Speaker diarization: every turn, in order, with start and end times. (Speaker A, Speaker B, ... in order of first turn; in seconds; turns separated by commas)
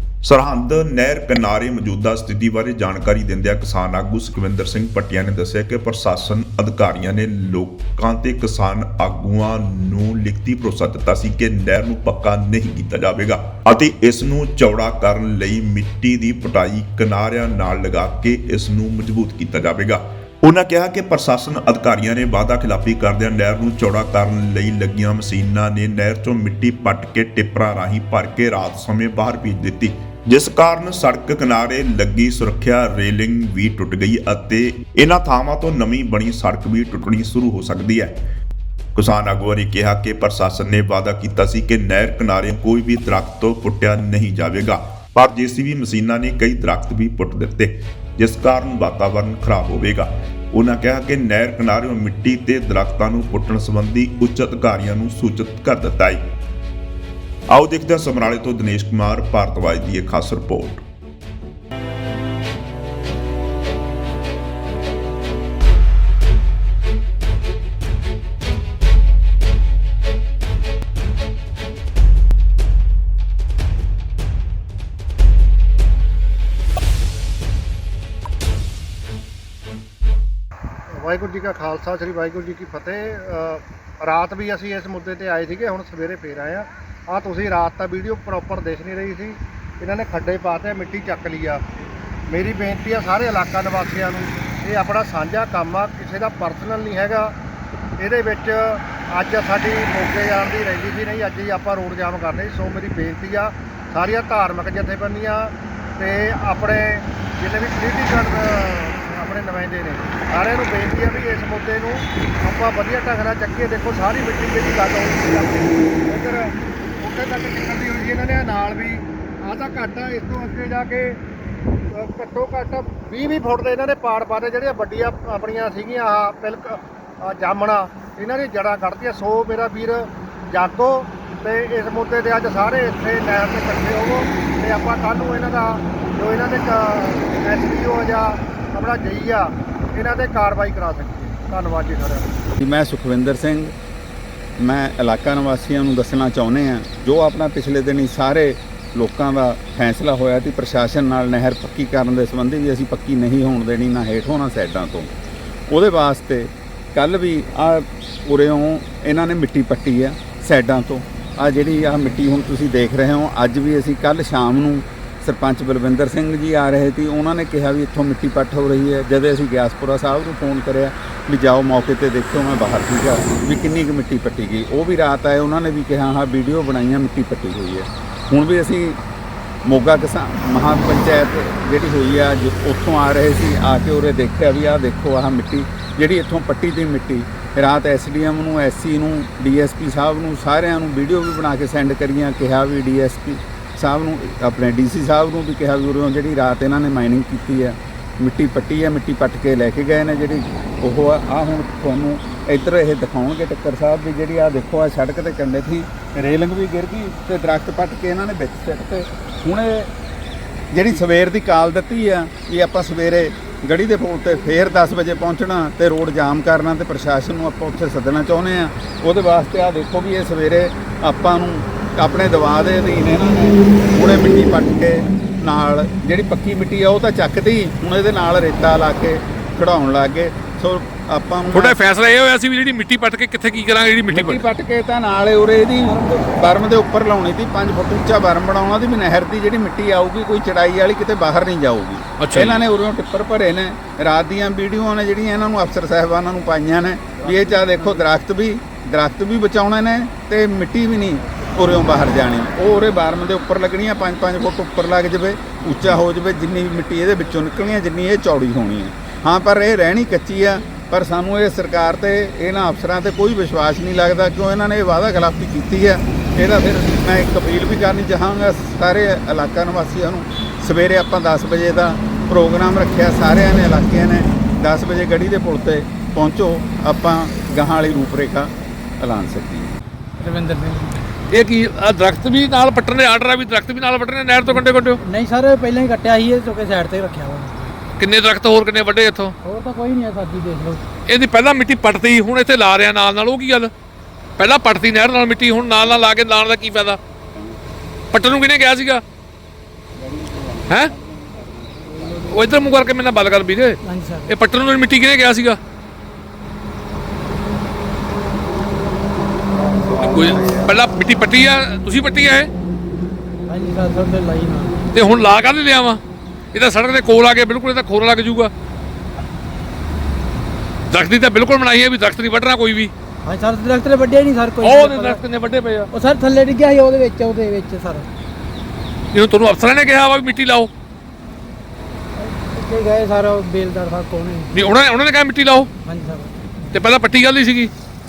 Speaker A: 0.2-38.2, Speaker A: 39.0-56.2, Speaker A: 57.5-60.8, Speaker B: 80.9-91.6, Speaker B: 92.3-97.3, Speaker B: 98.0-121.2, Speaker B: 121.9-142.4, Speaker C: 142.6-143.7, Speaker C: 144.6-155.1, Speaker C: 155.7-179.0, Speaker C: 179.7-209.9, Speaker C: 210.7-231.8, Speaker D: 231.5-234.4, Speaker C: 234.1-279.7, Speaker D: 242.2-242.6, Speaker E: 280.2-281.1, Speaker D: 281.3-285.0, Speaker E: 285.0-287.8, Speaker D: 288.0-289.3, Speaker E: 289.4-290.8, Speaker D: 291.1-293.7, Speaker D: 294.4-297.0, Speaker D: 298.1-299.0, Speaker D: 300.7-300.9, Speaker D: 302.3-305.6, Speaker E: 303.8-304.3, Speaker D: 309.9-312.5, Speaker E: 313.5-314.8, Speaker D: 314.9-316.0, Speaker D: 316.5-318.5, Speaker D: 320.9-322.9, Speaker E: 323.2-325.2, Speaker D: 324.6-325.9, Speaker E: 325.9-328.1, Speaker D: 329.1-330.7, Speaker E: 332.2-334.5, Speaker D: 334.5-335.7, Speaker E: 335.8-336.7, Speaker D: 336.7-337.7